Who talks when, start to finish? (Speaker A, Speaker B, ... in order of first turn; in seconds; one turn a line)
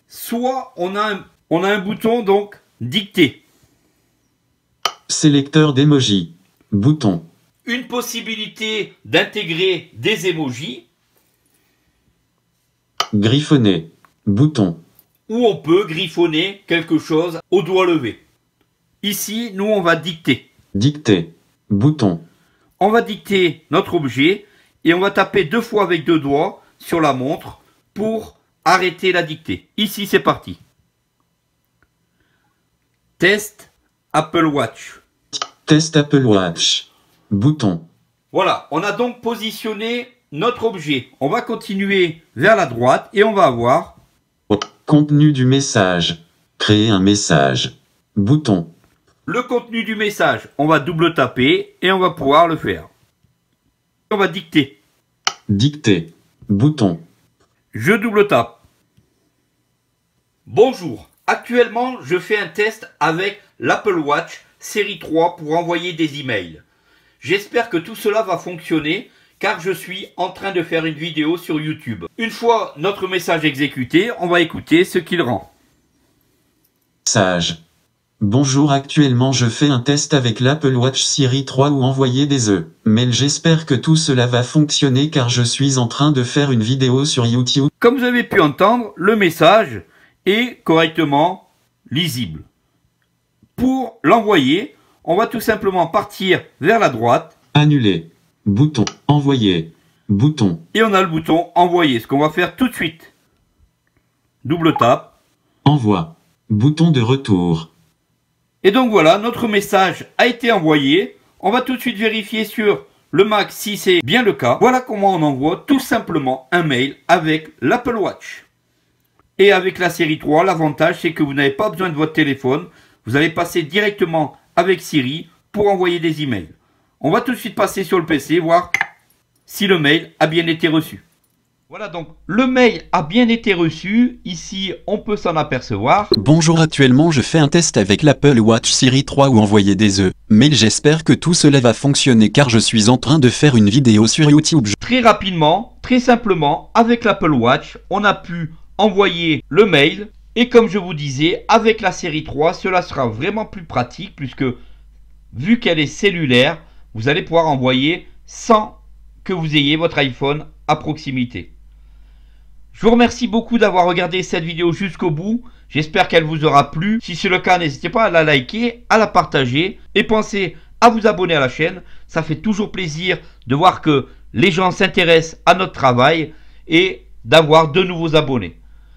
Speaker A: 0.1-3.4
Speaker B: 5.1-7.3
Speaker A: 7.7-10.9
Speaker B: 13.1-14.8
Speaker A: 15.3-18.2
Speaker A: 19.0-20.5
Speaker B: 20.8-22.2
Speaker A: 22.8-30.6
Speaker A: 33.2-35.0
Speaker B: 35.6-37.8
Speaker A: 38.3-44.0
Speaker B: 44.5-48.7
Speaker A: 49.3-52.9
Speaker A: 54.1-54.8
Speaker B: 55.5-57.0
Speaker A: 57.7-58.6
Speaker A: 60.5-66.6
Speaker A: 67.2-75.5
Speaker B: 77.0-77.6
Speaker B: 78.2-87.7
Speaker A: 87.8-92.5
Speaker A: 93.6-97.3
Speaker B: 97.5-100.6
Speaker A: 100.7-103.1
Speaker A: 104.4-105.1
Speaker B: 105.7-107.7
Speaker A: 108.6-118.5
Speaker A: 119.4-128.7
Speaker A: 129.5-131.0
Speaker A: 131.7-136.1
Speaker B: 136.2-144.8
Speaker A: 144.8-154.6
Speaker A: 155.3-161.5
Speaker A: 162.7-178.6